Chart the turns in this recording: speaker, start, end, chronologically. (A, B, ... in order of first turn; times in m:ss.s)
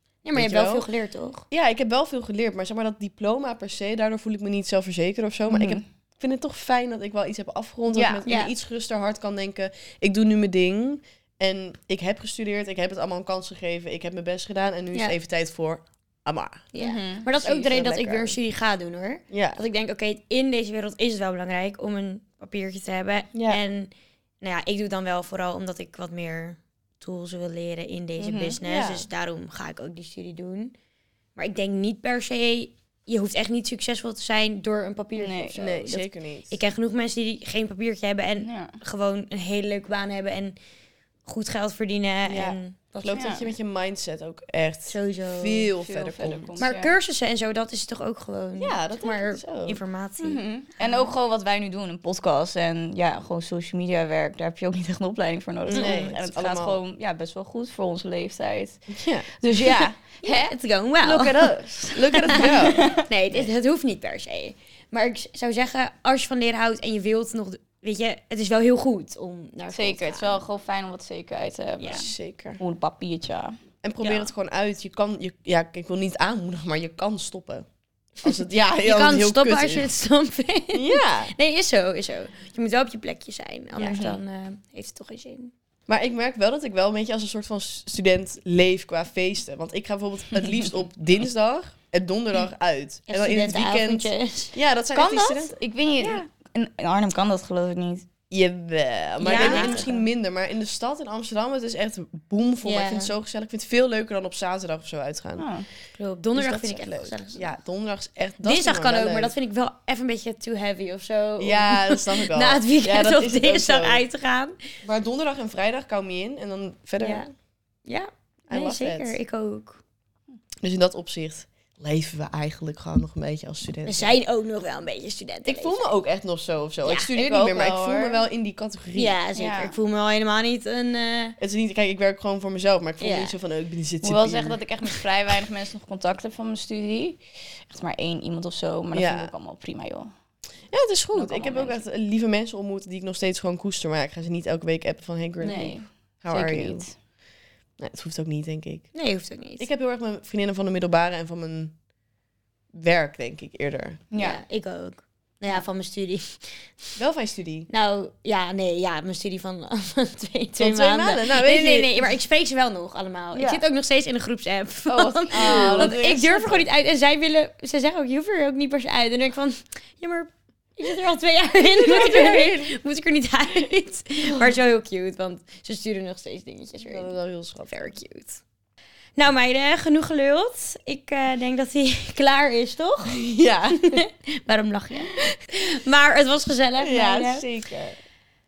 0:00.2-0:01.4 A
0:00.3-0:00.8 B
0:01.5-0:16.7 B
0:05.5-0:05.8 C
0:07.9-0:08.2 C
0:08.2-0:08.5 A
0:16.7-0:30.7 A
0:16.8-0:17.2 C
0:17.4-0:18.4 B
0:19.3-0:19.6 B
0:23.3-0:23.6 B
0:28.2-0:28.6 C
0:28.6-0:29.0 B
0:31.4-0:40.6 A
0:35.2-0:35.6 C
0:35.5-0:36.6 B
0:38.4-0:38.8 C
0:41.2-0:43.4 A
0:42.2-0:46.6 B
0:43.1-0:43.5 C
0:44.9-0:45.7 A
0:45.8-0:46.9 C
0:46.6-0:51.1 A
0:48.6-0:49.8 B
0:50.2-1:00.4 C
0:55.7-0:56.1 A
0:55.7-0:56.8 B
0:58.9-0:59.3 B
1:00.2-1:10.4 A
1:01.0-1:03.0 C
1:01.9-1:03.5 B
1:09.7-1:13.5 C
1:11.8-1:12.6 B
1:13.8-1:17.7 B
1:14.0-1:14.3 A
1:18.2-1:19.9 B
1:18.2-1:25.5 A
1:20.7-1:21.3 B
1:23.8-1:24.0 B
1:23.8-1:24.2 C
1:25.9-1:35.5 B
1:33.1-1:34.6 A
1:34.9-1:38.0 C
1:38.3-1:45.5 B
1:39.2-1:40.1 A
1:39.2-1:39.8 C
1:42.6-1:43.1 A
1:45.4-1:45.7 C
1:46.0-1:47.5 A
1:46.3-1:49.3 B
1:48.4-1:54.6 A
1:51.4-1:54.0 B
1:54.8-1:57.3 B
1:57.0-1:57.3 A
1:57.8-1:59.8 A
1:58.5-1:59.2 B
2:00.6-2:04.2 B
2:03.8-2:05.9 A
2:05.4-2:09.1 B
2:07.0-2:08.2 C
2:08.9-2:11.4 A
2:09.3-2:09.8 C
2:11.4-2:14.6 B
2:13.0-2:13.3 A
2:14.0-2:20.1 C
2:18.9-2:19.3 B
2:20.7-2:26.9 B
2:21.1-2:21.8 C
2:25.4-2:25.8 A
2:25.4-2:26.9 C
2:27.8-2:28.9 B
2:28.9-2:29.7 A
2:29.6-2:31.7 B
2:32.7-2:34.0 B
2:34.1-2:34.4 C
2:34.2-2:36.9 A
2:37.0-2:37.7 B
2:37.7-2:57.1 A
2:40.6-2:42.1 B
2:43.3-2:43.6 B
2:44.9-2:46.6 B
2:45.3-2:46.3 C
2:51.7-2:52.7 B
2:56.9-2:57.7 B
2:57.7-2:58.4 A
2:59.2-3:03.2 A
3:03.0-3:04.0 B
3:03.8-3:07.4 A
3:06.8-3:08.0 B